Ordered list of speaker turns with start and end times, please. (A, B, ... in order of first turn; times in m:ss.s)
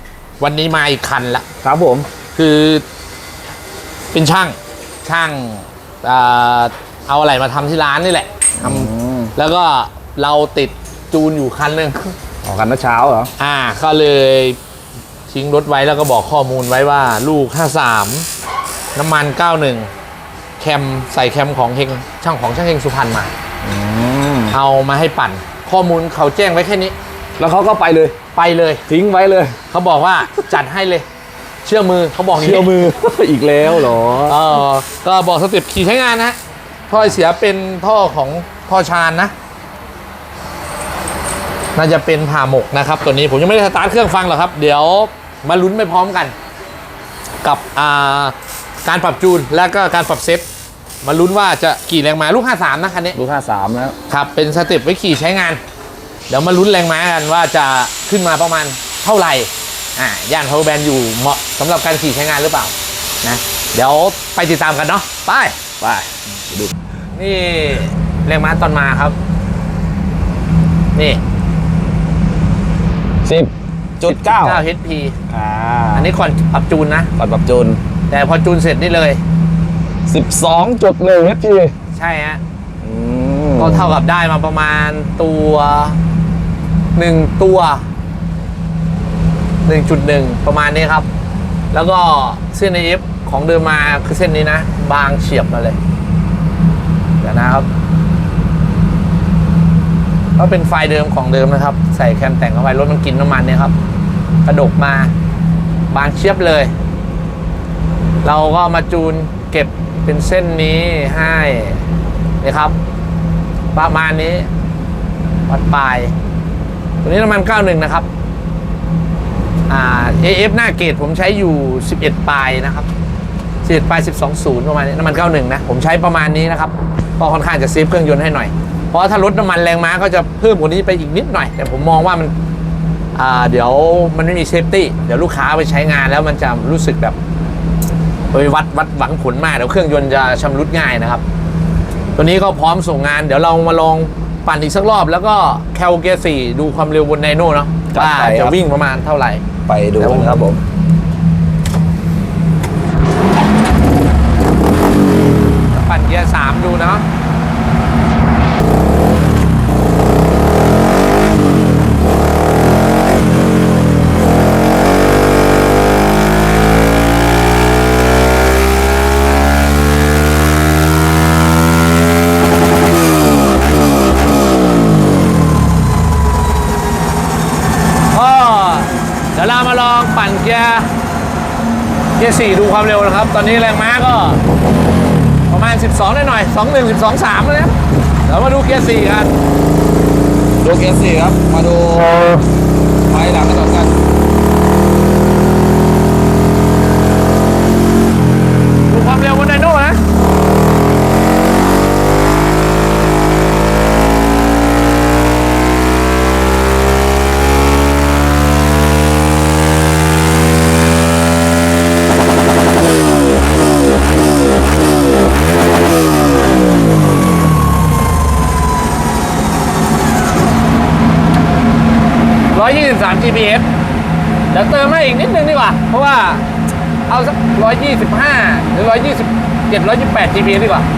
0:00.4-0:01.4 A
0:01.6-0:02.1 B
0:02.4-0:02.8 A
0:04.1-0:12.1 A
0:08.6-0:09.3 B
0:12.4-0:13.3 B
0:13.4-0:14.6 A
0:15.3-0:18.3 A
0:19.0-0:19.9 A
0:20.6-0:23.3 A
0:23.6-0:24.6 B
0:24.5-0:27.0 A
0:27.4-0:28.2 B
0:28.3-0:28.8 A
0:28.9-0:29.6 B
0:29.7-0:31.0 A
0:31.6-0:32.7 A
0:32.4-0:34.4 B
0:34.3-0:36.4 A
0:36.9-0:39.3 A
0:41.8-0:46.3 A
0:47.4-0:50.5 A
0:51.0-0:53.2 A
0:53.2-0:54.0 B
0:54.1-0:55.6 A
0:56.3-1:05.6 A
1:05.8-1:06.7 B
1:07.1-1:09.2 A
1:10.9-1:11.2 A
1:13.2-1:14.6 B
1:14.0-1:15.1 A
1:15.3-1:16.1 B
1:15.9-1:17.1 A
1:17.2-1:17.8 B
1:18.1-1:19.2 A
1:20.1-1:21.7 B
1:21.9-1:22.4 A
1:22.8-1:24.0 B
1:23.6-1:26.0 A
1:26.9-1:27.8 A
1:29.6-1:31.1 A
1:31.7-1:35.8 A
1:37.2-1:37.7 A
1:40.4-1:43.7 A
1:44.4-1:45.1 A
1:45.9-1:46.7 A
1:48.2-1:51.8 A
1:52.4-1:52.8 A
1:53.7-1:54.5 A
1:55.5-1:56.1 A
1:57.0-1:58.1 A
1:59.7-2:02.9 A
2:03.6-2:12.3 A
2:13.2-2:17.2 A
2:18.3-2:21.2 A
2:22.2-2:29.4 A
2:27.9-2:28.6 B
2:29.7-2:30.6 B
2:30.0-2:30.5 A
2:35.7-2:37.0 A
2:58.1-3:00.9 A
3:02.2-3:04.4 A
3:05.5-3:07.7 A
3:08.2-3:09.4 A
3:10.6-3:12.4 B
3:13.1-3:14.0 B
3:18.9-3:20.0 A
3:42.5-3:43.6 A
3:44.5-3:46.4 A
3:47.1-3:50.9 A